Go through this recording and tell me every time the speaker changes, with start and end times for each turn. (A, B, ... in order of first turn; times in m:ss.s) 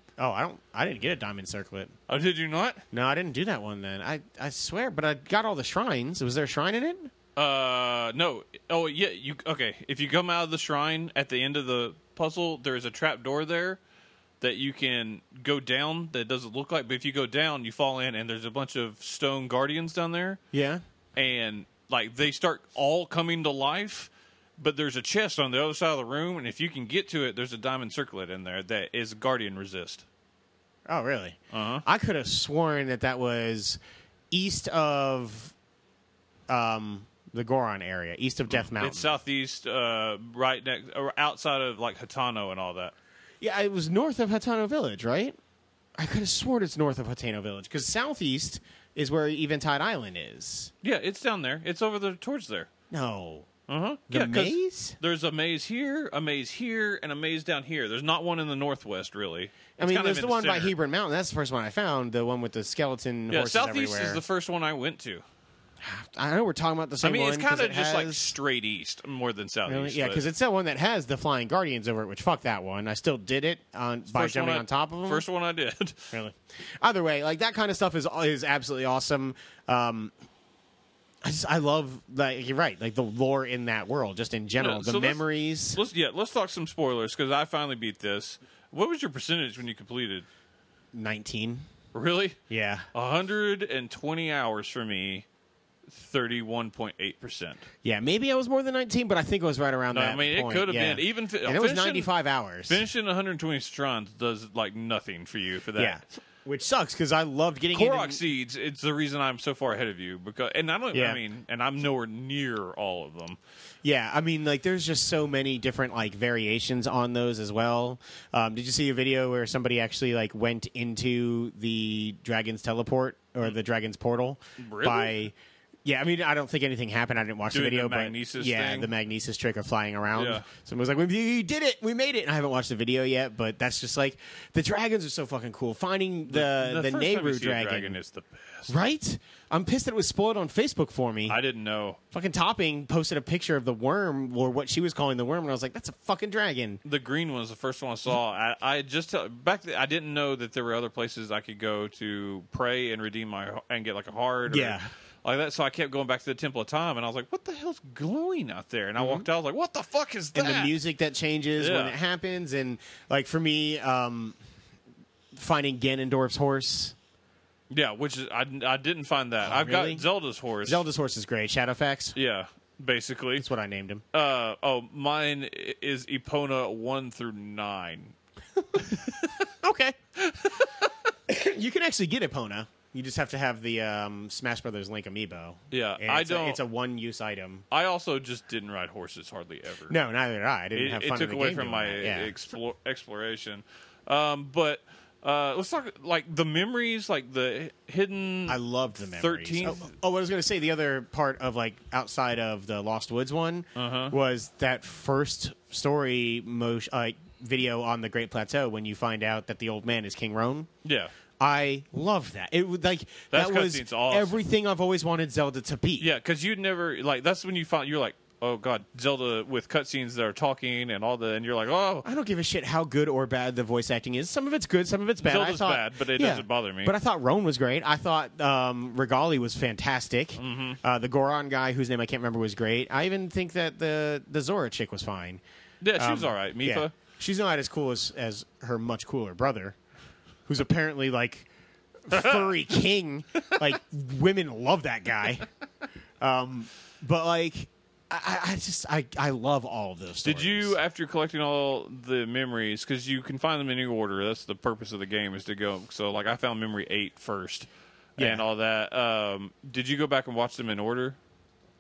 0:00.2-0:01.9 A
0:02.1-0:02.8 B
0:02.9-0:07.1 A
0:07.4-0:13.8 B
0:14.4-0:20.4 B
0:20.5-0:20.8 A
0:21.1-0:30.0 B
0:30.9-0:33.8 A
0:31.5-0:31.8 B
0:34.3-0:35.5 A
0:36.5-0:39.2 A
0:38.8-0:42.9 B
0:43.4-0:45.4 A
0:46.0-0:50.7 A
0:50.8-0:52.7 B
0:52.9-0:53.5 A
0:53.7-1:00.7 B
0:54.1-0:55.0 A
0:59.8-1:04.2 A
1:03.3-1:05.2 B
1:05.8-1:08.4 A
1:07.0-1:10.2 B
1:09.6-1:15.2 A
1:14.1-1:16.1 B
1:16.1-1:20.1 A
1:21.2-1:25.8 A
1:24.6-1:30.3 B
1:30.9-1:31.6 A
1:31.9-1:32.4 B
1:32.5-1:32.9 A
1:32.9-1:35.3 B
1:35.9-1:37.6 B
1:37.8-1:42.8 A
1:39.9-1:42.1 B
1:42.7-1:46.0 B
1:45.8-1:48.2 A
1:47.7-1:53.4 B
1:50.9-1:51.2 A
1:53.8-2:18.0 A
2:04.6-2:05.3 B
2:07.5-2:08.9 B
2:10.1-2:10.5 B
2:16.3-2:18.7 B
2:18.7-2:21.4 A
2:21.3-2:22.0 B
2:22.1-2:26.8 A
2:26.8-2:40.7 B
2:34.5-2:34.9 A
2:39.0-2:39.3 A
2:40.4-2:44.4 A
2:41.6-2:42.0 B
2:45.3-2:46.9 A
2:47.7-2:50.8 B
2:49.4-2:50.0 A
2:50.6-2:52.2 A
2:52.1-2:53.4 B
2:53.4-2:54.0 A
2:54.1-2:58.1 B
2:58.8-2:59.4 B
2:59.6-3:00.0 A
3:00.3-3:00.9 B
3:01.3-3:07.6 A
3:05.7-3:06.6 B
3:07.7-3:10.0 B
3:09.9-3:12.3 A
3:10.7-3:19.9 B
3:18.5-3:30.7 A
3:23.8-3:24.1 B
3:30.8-3:31.1 B
3:31.4-3:36.1 A
3:33.3-3:34.4 B
3:36.0-3:42.1 B
3:42.0-3:55.4 A
3:45.2-3:46.9 B
3:50.4-3:50.8 B
3:55.8-3:56.9 B
3:56.0-3:59.8 A
4:00.5-4:01.5 A
4:02.1-4:05.5 A
4:02.1-4:02.4 B
4:06.2-4:10.8 A
4:10.2-4:21.2 B
4:18.2-4:18.4 A